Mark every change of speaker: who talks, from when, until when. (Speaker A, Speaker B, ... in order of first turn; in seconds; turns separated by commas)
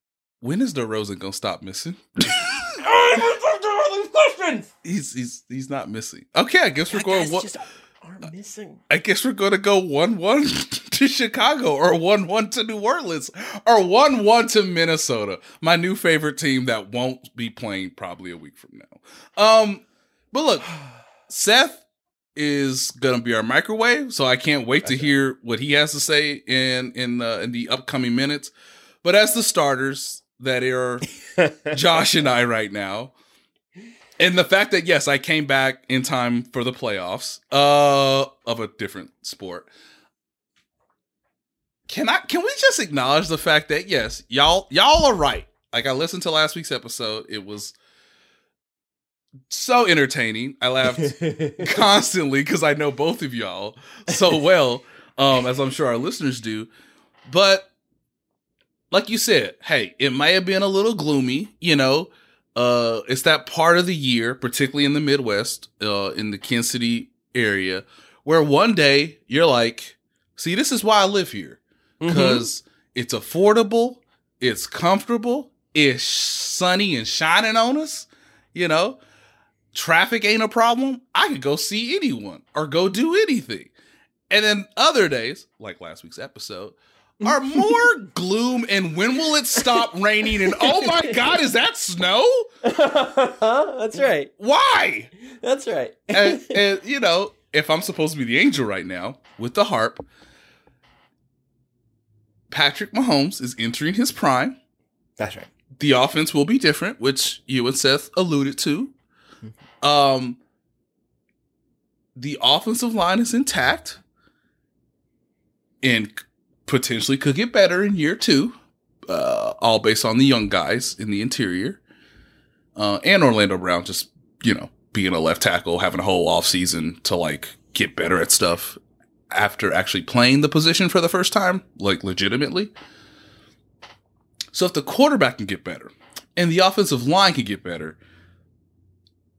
Speaker A: 0.4-2.6, Speaker B: 2.8-4.7, Speaker A: 4.8-7.5, Speaker B: 6.9-8.8, Speaker A: 8.9-20.7, Speaker A: 21.3-21.8, Speaker A: 22.4-28.5, Speaker A: 29.0-31.1, Speaker A: 31.6-33.1, Speaker A: 34.2-39.7, Speaker A: 41.9-47.7, Speaker A: 49.5-56.7, Speaker A: 57.3-57.7, Speaker A: 58.9-79.0, Speaker B: 72.0-72.5, Speaker A: 79.7-83.7, Speaker A: 84.3-92.5, Speaker B: 87.2-87.8, Speaker B: 89.5-89.9, Speaker B: 90.4-91.2, Speaker B: 92.6-94.3, Speaker A: 94.4-95.1, Speaker B: 95.3-96.6, Speaker A: 96.1-100.0, Speaker A: 102.5-104.6, Speaker B: 105.2-105.5, Speaker A: 105.8-108.9, Speaker A: 109.8-110.4, Speaker A: 112.2-114.0, Speaker A: 115.8-121.8, Speaker A: 122.8-128.8, Speaker A: 129.3-132.7, Speaker A: 134.5-138.0